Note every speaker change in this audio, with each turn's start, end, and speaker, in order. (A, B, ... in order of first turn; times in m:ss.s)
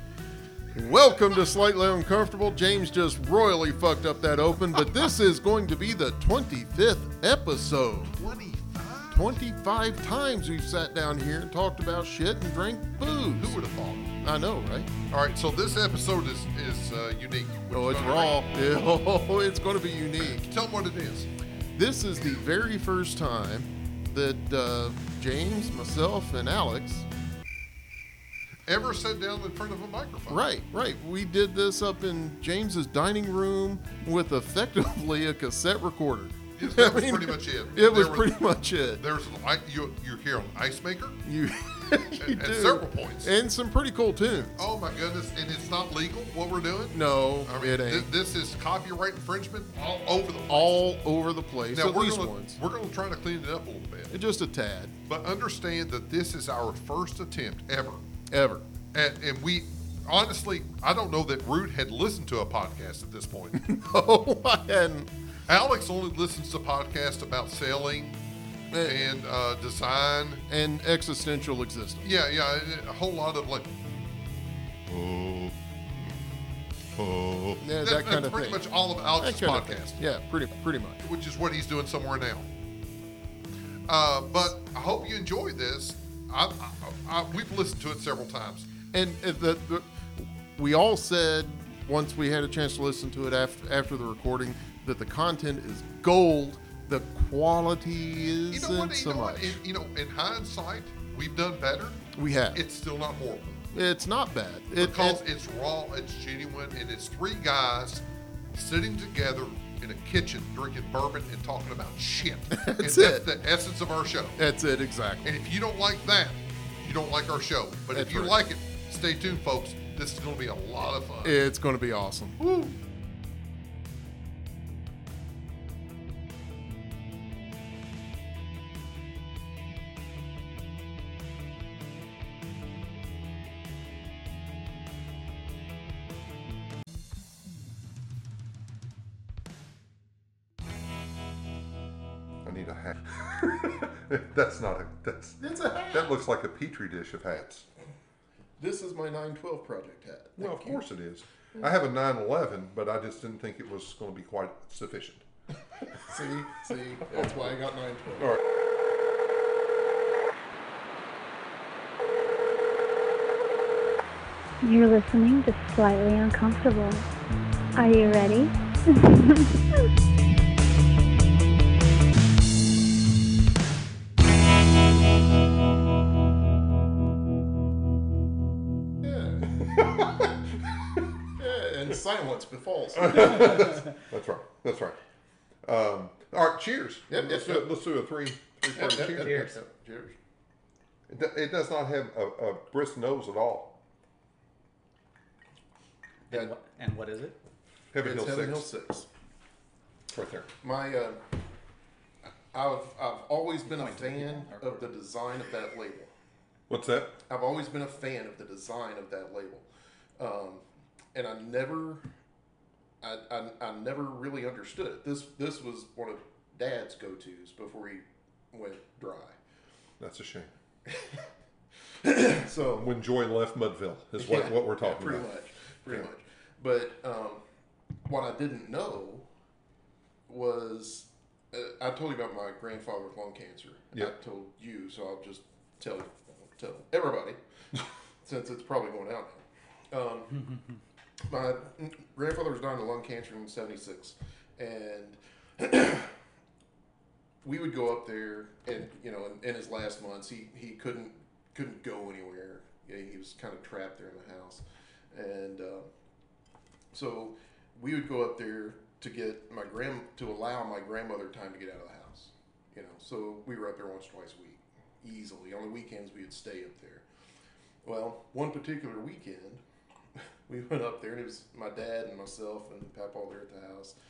0:00.7-0:08.2 A
0:08.1-0:09.3 B
0:09.1-0:13.6 A
0:13.4-0:14.2 B
0:14.2-0:14.9 A
0:15.1-0:18.4 B
0:17.7-0:20.5 A
0:20.4-0:21.3 B
0:21.8-0:27.1 A
0:28.7-0:30.4 B
0:30.3-0:39.0 A
0:36.6-0:41.2 B
0:41.2-0:44.6 A
0:42.1-0:43.3 B
0:44.6-0:50.9 B
0:46.9-0:48.1 A
0:50.5-0:52.6 A
0:51.7-0:54.2 B
0:54.1-0:55.0 A
0:55.0-0:58.1 B
0:58.3-0:58.7 A
0:58.9-1:03.6 B
1:03.6-1:05.1 A
1:05.5-1:08.2 B
1:08.7-1:09.1 A
1:08.8-1:10.4 B
1:10.5-1:12.1 A
1:12.0-1:13.8 B
1:14.9-1:20.0 B
1:17.6-1:18.6 A
1:19.2-1:21.0 A
1:21.0-1:22.5 B
1:23.9-1:28.7 B
1:28.9-1:39.6 A
1:38.5-1:43.7 B
1:42.1-1:42.6 A
1:43.7-1:45.2 A
1:44.8-1:54.4 B
1:52.5-1:53.3 A
1:54.4-1:55.4 A
1:55.2-2:01.4 B
1:57.9-1:58.4 A
2:01.2-2:02.4 A
2:02.4-2:02.8 B
2:22.4-2:27.7 B
2:25.4-2:26.1 A
2:28.6-2:30.8 A
2:30.4-2:35.2 B
2:35.9-2:38.4 A
2:44.6-2:47.0 C
2:47.8-2:49.6 C
2:59.0-2:59.7 A
2:59.6-3:00.3 B
3:01.4-3:03.9 A
3:03.0-3:05.0 B
3:05.6-3:09.5 B
3:07.1-3:07.7 A
3:08.8-3:10.2 A
3:09.2-3:09.6 D
3:11.1-3:13.8 B
3:16.3-3:17.4 D
3:17.9-3:18.7 B
3:18.0-3:19.1 A
3:20.1-3:20.5 B
3:20.6-3:21.2 A
3:22.2-3:26.1 A
3:23.7-3:24.9 D
3:26.7-3:27.2 B
3:27.3-3:29.7 A
3:30.2-3:30.6 A
3:31.1-3:32.1 A
3:33.0-3:39.4 A
3:40.0-3:40.5 B
3:40.9-3:41.3 A
3:42.0-3:42.9 A
3:42.7-3:45.3 B
3:44.2-3:47.4 A
3:48.1-3:49.3 A
3:50.3-3:57.4 A
3:58.2-4:00.5 A
4:01.3-4:06.1 A
4:07.4-4:15.9 A
4:16.9-4:27.0 A
4:27.8-4:29.6 A
4:30.5-4:34.0 A